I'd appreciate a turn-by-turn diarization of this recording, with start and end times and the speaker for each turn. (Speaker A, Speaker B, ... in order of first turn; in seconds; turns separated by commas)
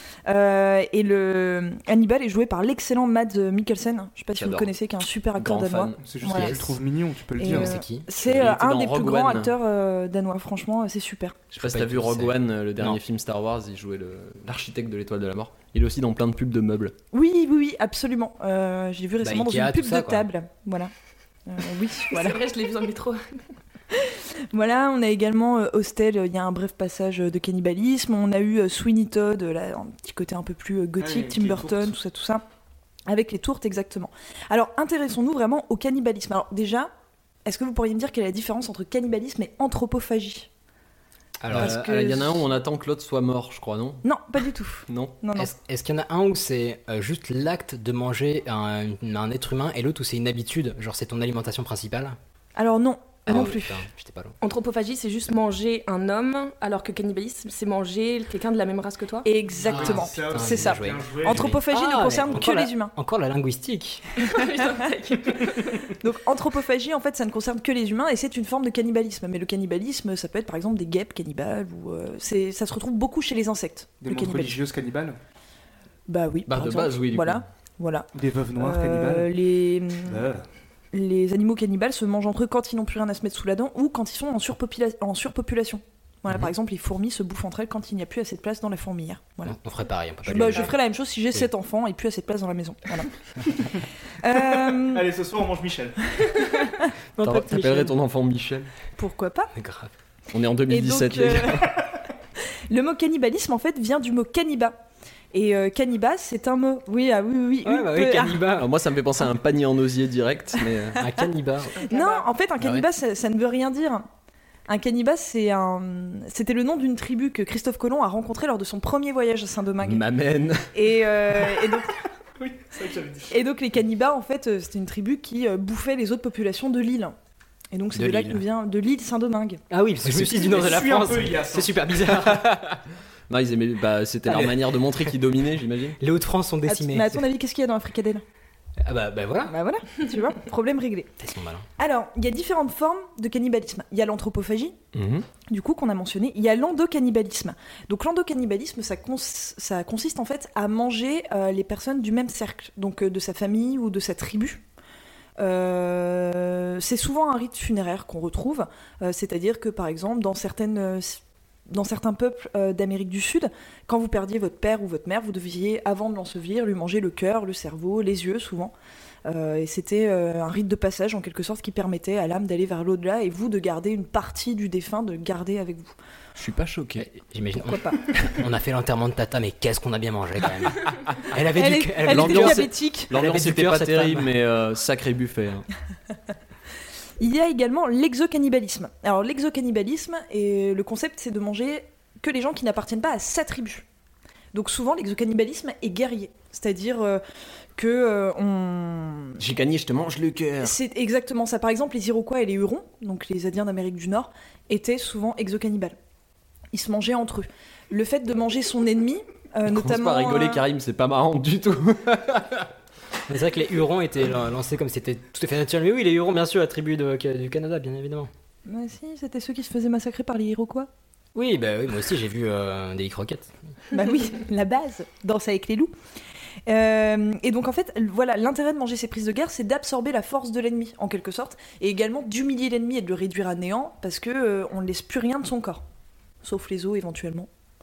Speaker A: 0.2-6.6, Speaker B: 4.4-4.7, Speaker B: 5.3-6.5, Speaker C: 6.0-7.8, Speaker A: 7.4-11.4, Speaker D: 7.4-8.1, Speaker B: 8.1-9.6, Speaker B: 11.5-16.9, Speaker D: 11.6-13.0, Speaker A: 17.1-20.9, Speaker D: 19.2-20.3, Speaker A: 21.5-22.4, Speaker E: 22.1-23.2, Speaker A: 23.9-32.4, Speaker C: 31.0-31.9, Speaker A: 33.1-36.9, Speaker A: 37.4-40.5, Speaker D: 41.4-41.8, Speaker B: 41.5-44.0, Speaker A: 41.5-42.4, Speaker A: 44.0-45.5, Speaker B: 44.9-45.1, Speaker D: 45.3-52.1, Speaker A: 52.5-53.8, Speaker D: 53.2-54.3, Speaker E: 54.4-59.2, Speaker A: 59.2-60.5, Speaker D: 59.6-64.0, Speaker C: 59.7-61.6, Speaker A: 61.2-62.9, Speaker E: 64.2-65.8, Speaker A: 66.0-74.6, Speaker C: 74.0-75.2, Speaker A: 76.1-80.2, Speaker B: 76.5-77.4, Speaker C: 78.1-79.3, Speaker C: 80.0-80.4, Speaker A: 80.9-89.5, Speaker D: 89.5-90.7, Speaker A: 90.2-93.6, Speaker A: 94.2-95.1, Speaker C: 94.3-96.4, Speaker D: 97.2-97.9, Speaker B: 97.2-98.7, Speaker A: 99.0-99.5, Speaker D: 99.5-99.9, Speaker B: 100.3-101.7, Speaker A: 100.7-101.8, Speaker A: 102.7-104.7, Speaker A: 105.3-108.4, Speaker D: 107.6-108.7, Speaker B: 108.5-111.0, Speaker D: 111.0-111.8, Speaker E: 111.8-112.2, Speaker A: 111.8-114.0, Speaker B: 112.6-112.8, Speaker A: 114.7-120.0, Speaker B: 119.8-120.7, Speaker A: 120.7-122.0, Speaker C: 122.4-123.3, Speaker A: 123.3-127.1, Speaker A: 127.7-129.6, Speaker D: 127.9-128.4, Speaker D: 129.7-132.7, Speaker C: 130.2-131.8, Speaker B: 132.2-132.7, Speaker B: 133.3-136.0, Speaker D: 134.3-134.8, Speaker D: 136.0-137.3, Speaker A: 136.7-138.2, Speaker D: 138.8-139.5, Speaker A: 139.5-141.1, Speaker D: 141.2-141.6, Speaker A: 141.8-144.8, Speaker B: 144.9-145.2, Speaker A: 145.5-154.6, Speaker A: 155.4-168.7, Speaker A: 169.2-175.9, Speaker B: 176.3-177.1, Speaker D: 177.0-184.3, Speaker A: 177.6-178.0, Speaker A: 181.5-183.1, Speaker B: 182.1-185.7, Speaker A: 187.2-193.8, Speaker A: 194.5-197.2, Speaker A: 197.8-199.4, Speaker B: 199.4-200.8, Speaker A: 200.6-205.9, Speaker A: 206.7-210.6, Speaker B: 209.6-212.7, Speaker D: 213.3-218.3, Speaker A: 218.7-220.9, Speaker D: 221.3-223.5, Speaker A: 223.9-225.9, Speaker A: 226.7-235.8, Speaker A: 236.4-237.5